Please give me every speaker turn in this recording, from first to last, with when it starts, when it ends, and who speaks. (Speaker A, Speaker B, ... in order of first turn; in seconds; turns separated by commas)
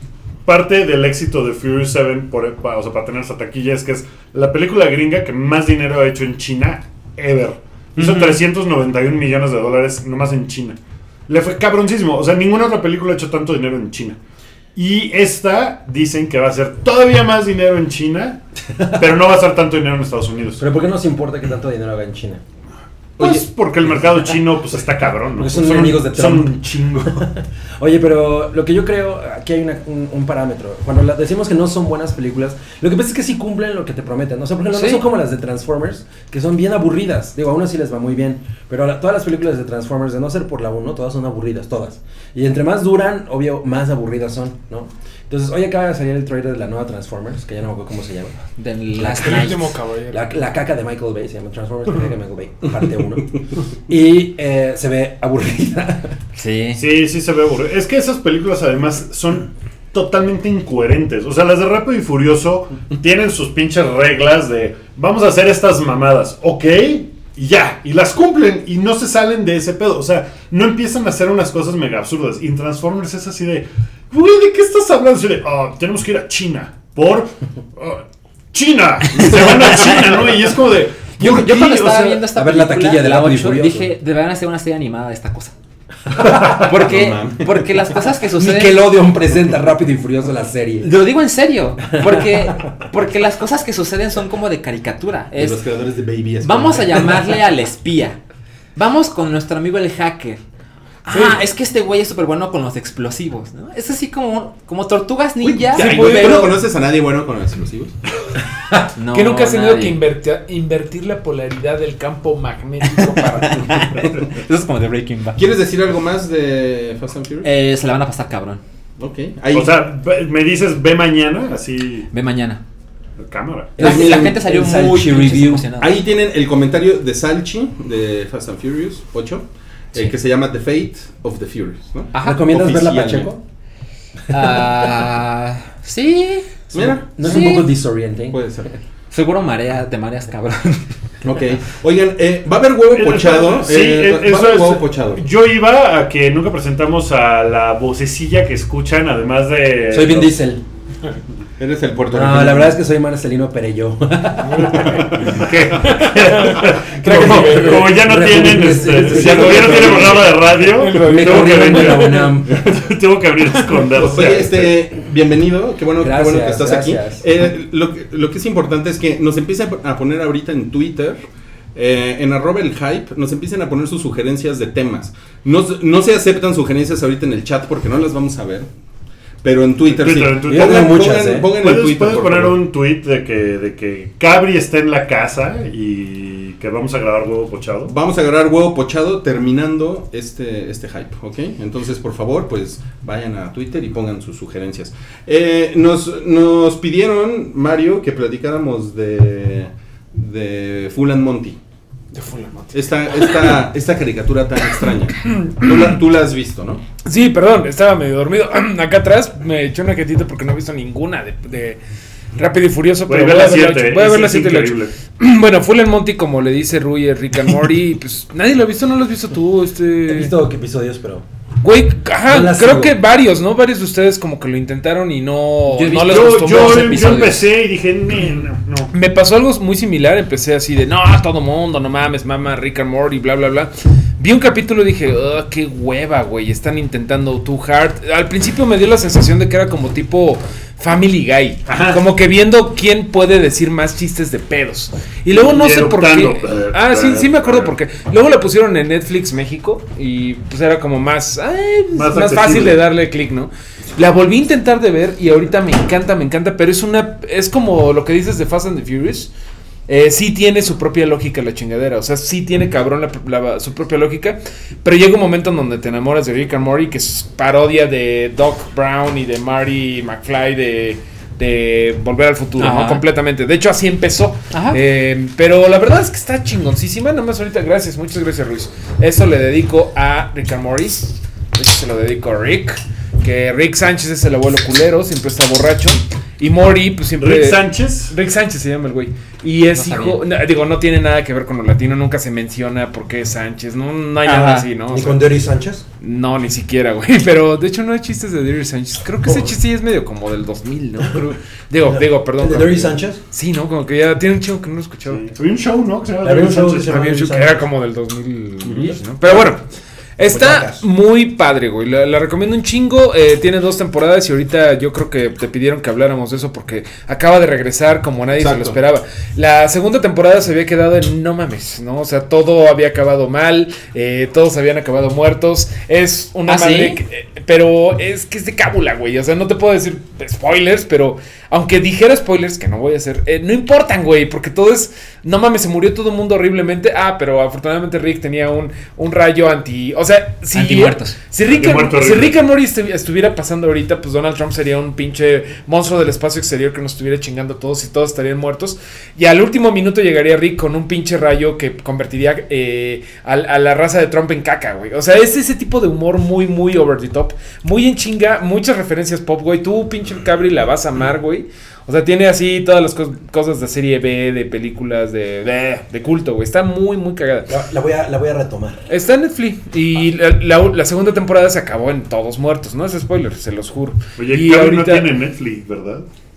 Speaker A: 0.4-10.8, Speaker A: 11.3-14.2, Speaker A: 14.7-20.6, Speaker B: 20.6-22.4, Speaker A: 23.2-27.3, Speaker C: 23.2-23.4, Speaker B: 25.4-48.4, Speaker D: 34.7-35.0, Speaker D: 48.6-49.7, Speaker B: 49.0-49.5, Speaker E: 49.0-50.3, Speaker B: 50.1-56.1, Speaker D: 56.4-56.8, Speaker A: 56.8-82.2, Speaker D: 81.2-85.5, Speaker B: 82.3-83.9, Speaker C: 86.2-87.7, Speaker D: 86.2-88.9, Speaker B: 88.3-90.9, Speaker D: 90.8-95.6, Speaker B: 92.0-92.5, Speaker C: 95.3-97.4, Speaker D: 96.4-98.2, Speaker D: 98.8-100.4, Speaker D: 101.0-106.6, Speaker E: 101.1-101.4, Speaker C: 105.4-108.0, Speaker E: 105.7-106.6, Speaker D: 109.0-110.0, Speaker E: 109.1-114.0, Speaker D: 112.8-115.4, Speaker C: 115.3-117.5, Speaker D: 117.4-118.6, Speaker C: 119.0-119.7, Speaker A: 119.5-122.1, Speaker D: 122.1-122.6, Speaker A: 123.2-123.8, Speaker B: 123.8-125.7, Speaker C: 123.8-124.4, Speaker D: 123.8-126.0, Speaker C: 125.8-133.3, Speaker D: 132.1-132.4, Speaker B: 132.2-133.4, Speaker D: 134.3-137.7, Speaker C: 136.7-137.4, Speaker B: 137.1-138.4, Speaker C: 138.3-138.7, Speaker D: 139.1-140.9, Speaker C: 141.2-145.2, Speaker A: 142.9-150.3, Speaker B: 149.9-150.6, Speaker C: 151.6-152.8, Speaker B: 152.1-155.1, Speaker C: 154.7-155.4, Speaker A: 155.2-164.7, Speaker E: 155.8-158.4, Speaker B: 157.0-160.4, Speaker E: 159.2-162.3, Speaker C: 159.3-160.1, Speaker B: 160.9-162.6, Speaker C: 163.9-171.2, Speaker B: 166.0-167.2, Speaker C: 171.7-178.7, Speaker C: 179.4-182.6, Speaker A: 179.8-187.9, Speaker B: 180.5-181.5, Speaker C: 187.9-201.6, Speaker E: 202.1-203.6, Speaker C: 202.7-206.8, Speaker E: 205.2-205.9, Speaker E: 207.0-211.8, Speaker E: 212.3-220.3, Speaker A: 213.1-214.9, Speaker B: 220.1-221.2, Speaker E: 221.6-227.3, Speaker B: 222.3-223.0, Speaker D: 225.7-227.5, Speaker A: 226.0-228.9, Speaker E: 228.9-259.3, Speaker A: 241.7-242.0, Speaker A: 245.3-247.7, Speaker A: 251.9-252.8, Speaker E: 259.9-295.2, Speaker D: 272.6-273.0, Speaker D: 274.5-274.8, Speaker A: 287.2-288.1, Speaker D: 289.7-290.2, Speaker D: 294.2-294.7, Speaker B: 294.9-295.8, Speaker E: 296.0-305.2, Speaker B: 301.9-303.2, Speaker A: 305.1-307.1, Speaker B: 306.2-307.6, Speaker E: 306.9-309.6, Speaker A: 308.6-308.9, Speaker B: 309.2-309.5, Speaker E: 310.2-367.5, Speaker B: 310.2-310.8, Speaker C: 318.3-318.8, Speaker D: 326.5-327.0, Speaker D: 340.5-341.2, Speaker A: 341.4-342.4, Speaker B: 367.5-368.8, Speaker E: 368.9-375.1, Speaker A: 374.2-376.1